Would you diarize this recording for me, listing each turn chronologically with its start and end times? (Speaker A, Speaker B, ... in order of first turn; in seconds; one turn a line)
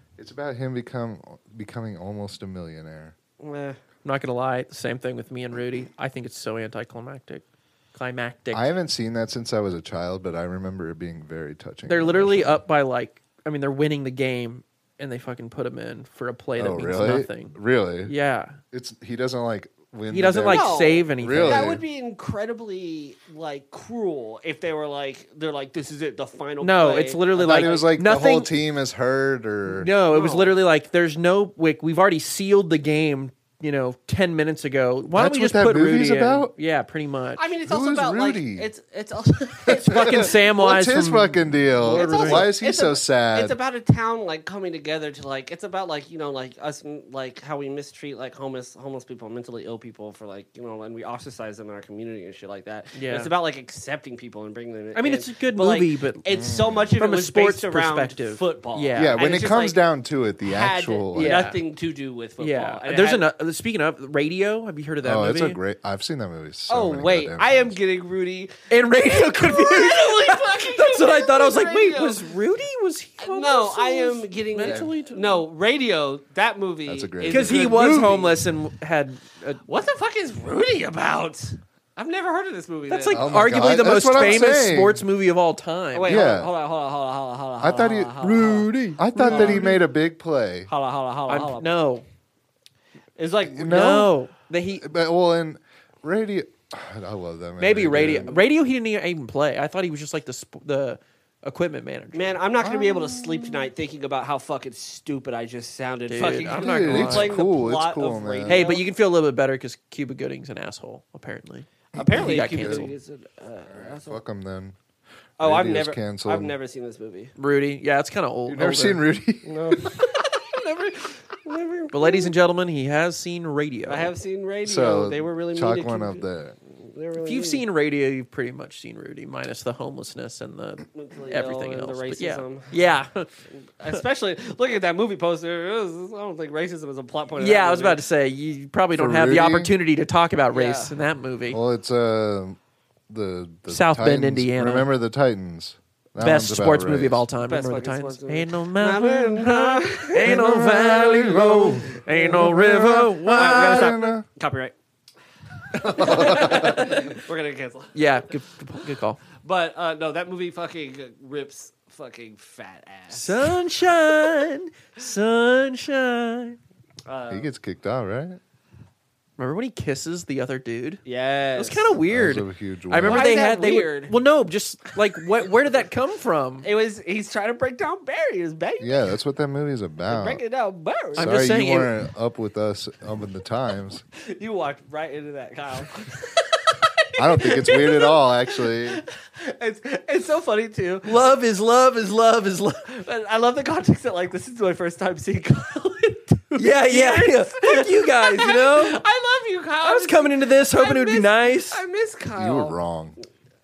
Speaker A: 0.2-3.1
Speaker B: 3.4-3.8
Speaker C: 4.0-8.7
Speaker A: 8.5-12.6
Speaker C: 11.9-18.6
Speaker A: 16.6-18.1
Speaker A: 18.7-21.8
Speaker C: 20.1-21.8
Speaker B: 20.5-28.0
Speaker C: 26.6-28.5
Speaker A: 27.4-29.9
Speaker C: 29.7-37.4
Speaker B: 30.0-30.6
Speaker A: 35.1-36.5
Speaker B: 37.4-40.4
Speaker A: 37.6-38.7
Speaker A: 39.7-43.6
Speaker C: 39.9-42.5
Speaker B: 41.9-59.8
Speaker C: 52.9-53.3
Speaker C: 54.9-56.2
Speaker A: 56.3-56.9
Speaker C: 57.0-59.4
Speaker A: 58.9-61.3
Speaker B: 60.4-63.2
Speaker C: 61.1-61.6
Speaker C: 62.4-65.6
Speaker A: 65.0-67.7
Speaker B: 66.7-72.3
Speaker C: 68.7-75.4
Speaker B: 73.2-78.3
Speaker A: 74.6-74.9
Speaker A: 76.8-77.5
Speaker C: 77.2-79.6
Speaker B: 79.7-83.6
Speaker C: 82.9-86.2
Speaker A: 83.1-85.0
Speaker B: 85.9-89.8
Speaker A: 86.1-86.5
Speaker A: 87.6-88.2
Speaker C: 88.2-89.8
Speaker A: 88.9-90.7
Speaker B: 90.7-91.7
Speaker C: 91.3-92.0
Speaker B: 93.2-93.9
Speaker A: 93.4-94.2
Speaker C: 93.7-94.8
Speaker A: 94.8-98.4
Speaker C: 97.6-102.4
Speaker B: 102.1-108.8
Speaker A: 102.6-103.7
Speaker C: 106.1-107.4
Speaker A: 106.2-108.7
Speaker C: 108.5-112.9
Speaker A: 111.9-112.9
Speaker B: 111.9-114.2
Speaker A: 113.7-114.8
Speaker A: 115.4-116.5
Speaker B: 115.4-117.3
Speaker C: 117.3-119.0
Speaker A: 118.5-120.2
Speaker B: 119.4-122.3
Speaker C: 121.9-124.1
Speaker B: 123.8-127.6
Speaker A: 124.6-126.6
Speaker C: 127.2-133.3
Speaker B: 130.9-132.7
Speaker B: 133.5-138.0
Speaker C: 137.4-141.6
Speaker A: 138.9-139.7
Speaker B: 140.5-140.9
Speaker A: 141.5-142.6
Speaker A: 143.1-147.2
Speaker C: 143.7-144.9
Speaker C: 146.2-154.0
Speaker B: 147.4-150.7
Speaker A: 150.2-154.2
Speaker B: 152.0-152.7
Speaker B: 153.2-154.7
Speaker B: 155.7-158.0
Speaker A: 155.7-156.9
Speaker C: 156.0-157.2
Speaker C: 157.9-159.2
Speaker B: 159.4-163.6
Speaker C: 163.1-166.6
Speaker B: 167.1-167.5
Speaker A: 167.3-168.4
Speaker C: 169.4-171.0
Speaker B: 171.0-171.9
Speaker C: 171.5-176.7
Speaker A: 172.1-173.4
Speaker B: 173.0-174.1
Speaker B: 176.6-179.0
Speaker A: 178.8-180.4
Speaker B: 180.1-181.5
Speaker C: 181.2-181.9
Speaker A: 181.2-184.0
Speaker B: 184.2-191.2
Speaker A: 187.2-189.0
Speaker C: 191.0-192.9
Speaker B: 192.9-202.8
Speaker C: 196.6-199.0
Speaker C: 199.8-201.8
Speaker A: 202.4-203.2